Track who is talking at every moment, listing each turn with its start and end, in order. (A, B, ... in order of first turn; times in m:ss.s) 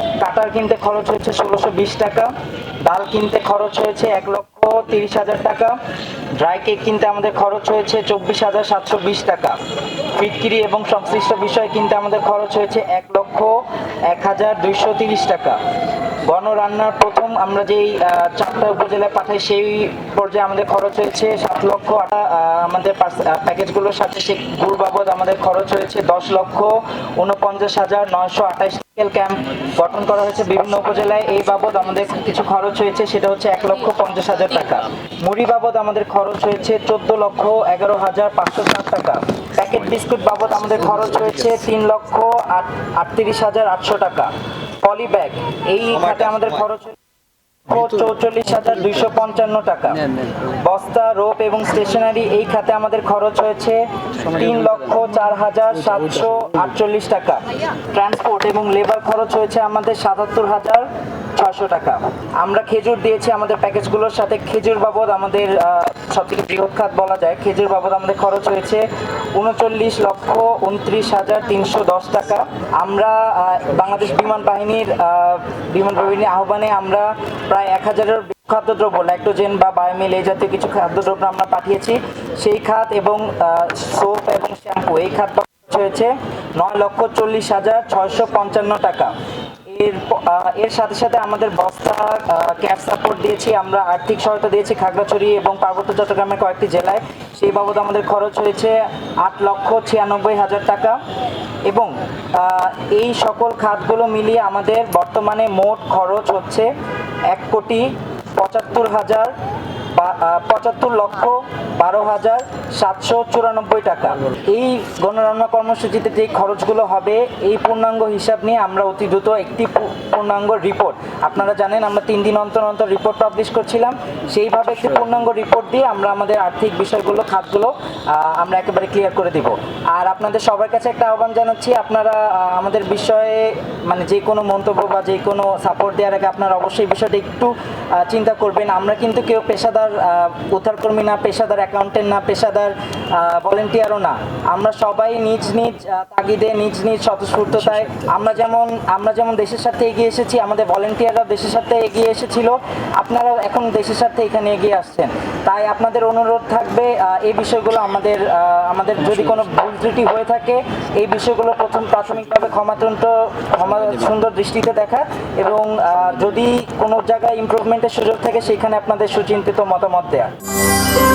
0:00.2-0:05.8 A
0:06.4-0:09.6 A
0:10.2-0:15.6 A
0:16.2-0:44.3 A
0:44.8-0:47.0 A
0:47.7-1:29.1 A
1:29.7-1:41.0 A
1:41.7-1:46.7 A
1:47.3-1:49.4 A
1:49.9-2:50.3 A